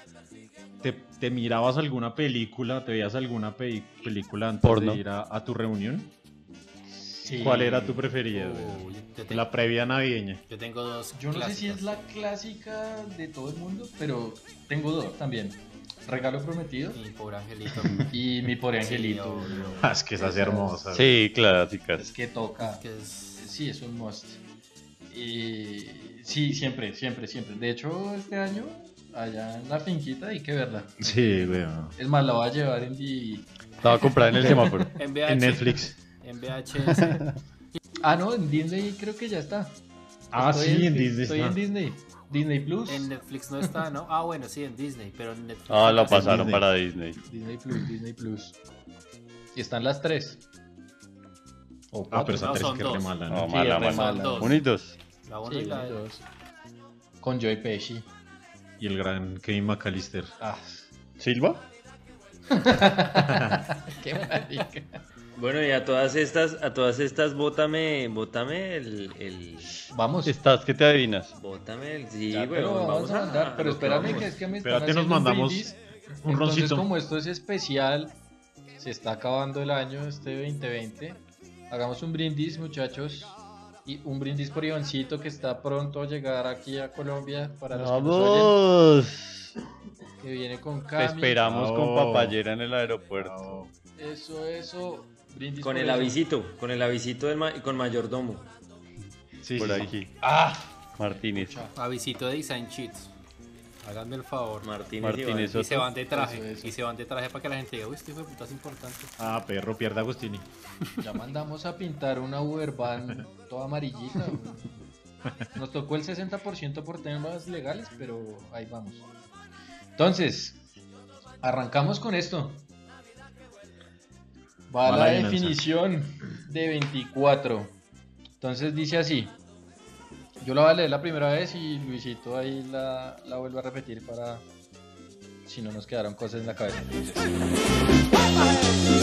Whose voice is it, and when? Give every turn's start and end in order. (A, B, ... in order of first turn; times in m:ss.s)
0:00.8-0:06.1 A
0:04.6-0:05.0 B
0:07.1-0:07.9 C
0:07.4-0:10.4 A
0:07.6-0:09.5 D
0:10.5-0:12.0 D
0:11.1-0:17.0 C
0:16.9-0:18.1 D
0:18.1-0:20.9 C
0:18.8-0:20.0 D
0:19.8-0:21.2 A
0:20.9-0:22.1 B
0:22.0-0:24.4 C
0:22.6-0:23.5 D
0:25.1-0:31.0 C
0:31.0-0:32.0 A
0:32.0-0:33.5 C
0:33.8-0:34.9 B
0:34.4-0:36.0 A
0:35.0-0:37.3 D
0:36.9-0:37.3 B
0:38.0-0:39.8 C
0:40.3-0:41.6 A
0:40.3-0:43.1 C
0:42.9-0:46.4 D
0:45.7-0:47.2 B
0:46.1-0:46.7 A
0:47.2-0:48.6 C
0:49.5-0:50.4 C
0:51.9-0:52.5 C
0:52.1-0:53.6 A
0:52.2-0:54.6 D
0:53.3-0:55.0 B
0:53.5-0:54.6 C
0:55.2-0:56.0 D
0:55.4-0:56.2 C
0:57.2-0:58.1 C
0:58.8-1:00.3 A
1:00.4-1:00.9 C
1:01.2-1:01.6 B
1:02.5-1:05.0 C
1:03.3-1:03.6 A
1:05.4-1:09.9 E
1:09.9-1:10.4 C
1:10.2-1:11.3 B
1:11.4-1:14.4 E
1:12.3-1:18.2 C
1:14.6-1:16.9 A
1:18.8-1:28.6 C
1:27.7-1:29.5 B
1:30.2-1:31.4 C
1:31.0-1:33.6 B
1:31.4-1:32.4 A
1:33.2-1:33.7 A
1:34.0-1:36.2 C
1:35.6-1:38.5 E
1:39.4-1:39.9 A
1:39.6-1:40.1 B
1:40.2-1:41.7 C
1:41.0-1:41.6 B
1:41.7-1:43.1 D
1:43.8-1:44.7 D
1:44.6-1:45.6 E
1:45.0-1:45.9 B
1:45.5-1:49.1 D
1:46.1-1:46.8 C
1:49.2-1:50.5 A
1:51.0-1:54.8 C
1:55.5-1:59.0 C
2:00.0-2:00.6 C
2:01.4-2:02.6 C
2:04.7-2:07.8 C
2:04.8-2:05.6 A
2:08.4-2:09.4 C
2:10.4-2:14.5 C
2:15.4-2:17.4 C